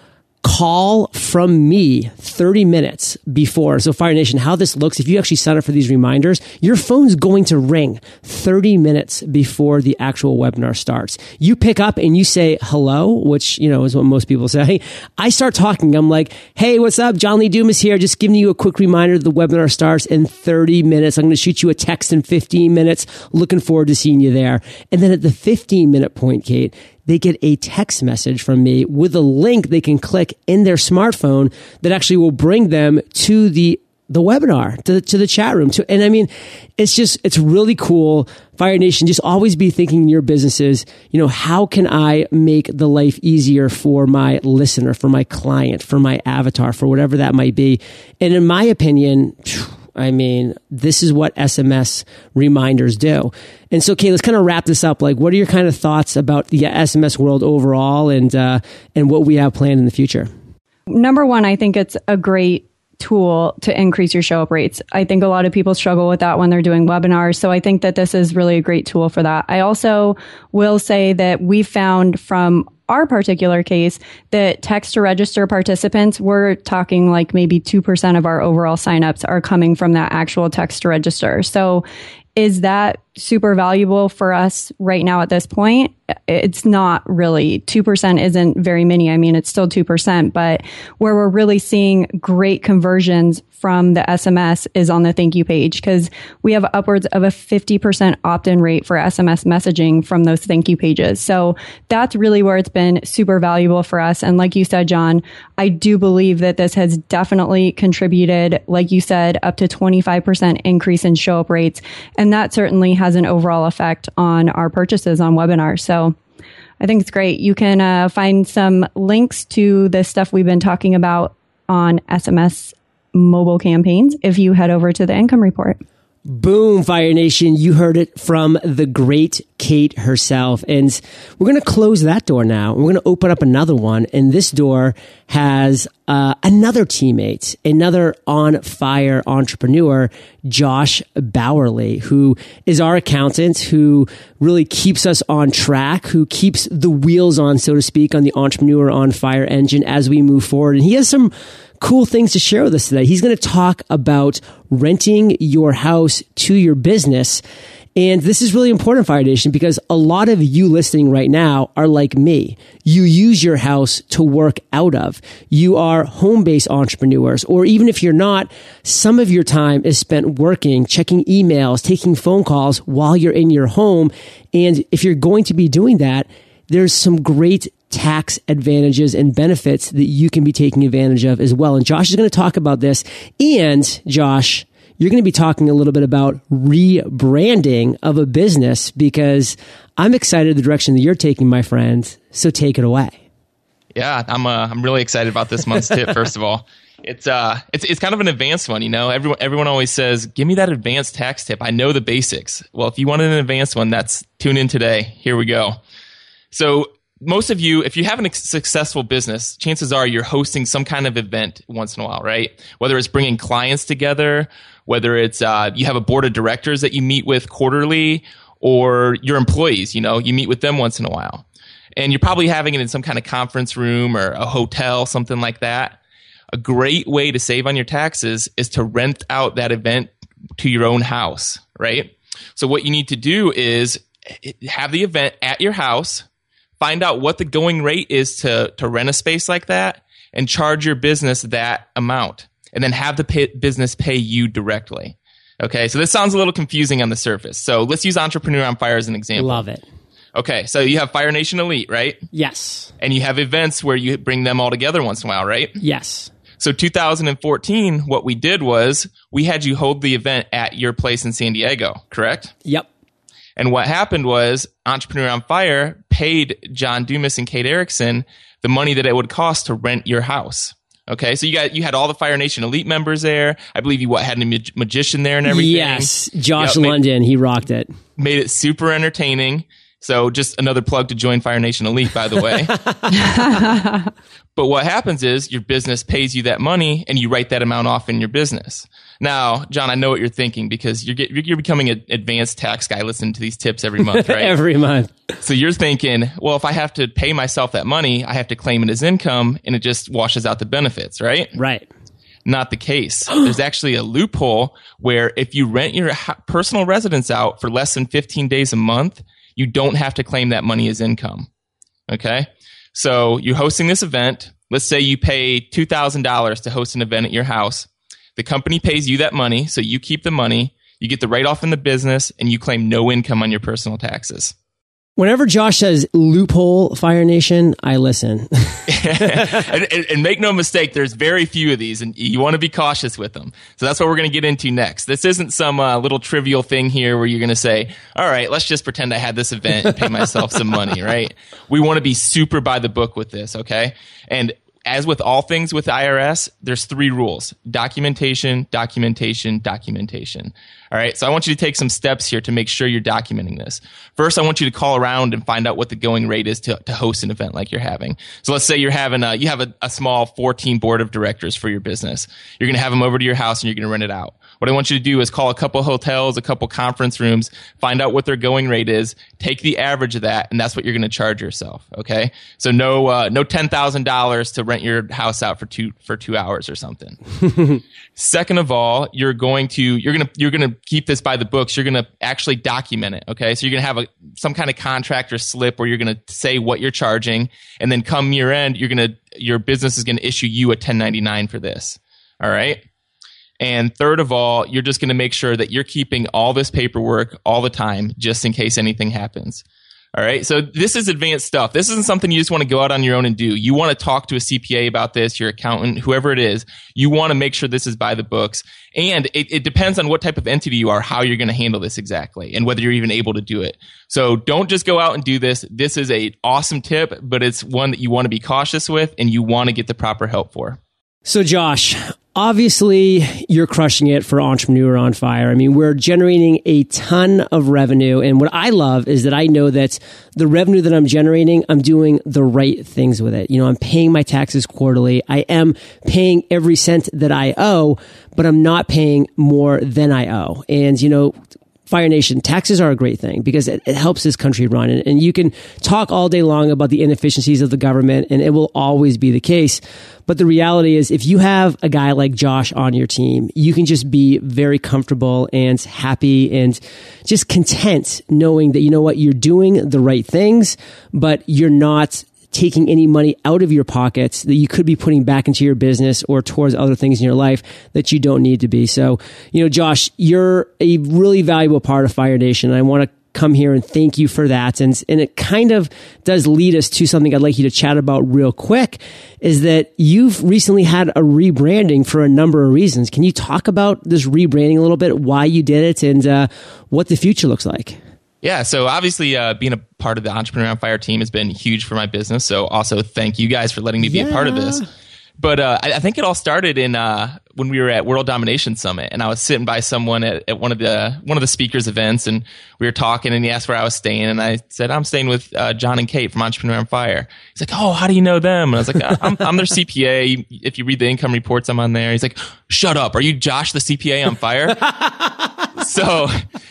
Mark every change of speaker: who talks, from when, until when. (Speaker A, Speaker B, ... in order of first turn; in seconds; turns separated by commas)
Speaker A: 0.4-60.3, Speaker B: 60.9-81.8, Speaker B: 82.3-116.2, Speaker B: 116.8-125.8, Speaker A: 126.2-157.4, Speaker A: 157.9-193.2, Speaker C: 193.9-205.8, Speaker C: 206.5-221.4, Speaker C: 221.9-226.0, Speaker C: 226.5-236.2, Speaker C: 236.8-249.6, Speaker A: 249.3-249.8, Speaker C: 250.3-252.2, Speaker A: 252.3-252.9, Speaker C: 253.0-255.8, Speaker A: 255.8-256.3, Speaker C: 256.6-262.5, Speaker C: 263.6-277.0, Speaker A: 275.5-277.9, Speaker C: 278.2-282.7, Speaker B: 283.2-284.0, Speaker C: 284.6-294.5, Speaker A: 294.0-295.3, Speaker C: 295.4-301.5, Speaker A: 301.6-301.9, Speaker C: 302.4-311.5, Speaker C: 312.1-324.5, Speaker A: 325.2-329.5, Speaker C: 328.9-377.2, Speaker C: 378.1-392.8, Speaker C: 393.6-420.8, Speaker A: 421.2-441.3, Speaker A: 441.9-488.0, Speaker C: 488.4-494.8, Speaker A: 494.0-494.9, Speaker C: 495.4-514.9, Speaker C: 515.8-516.4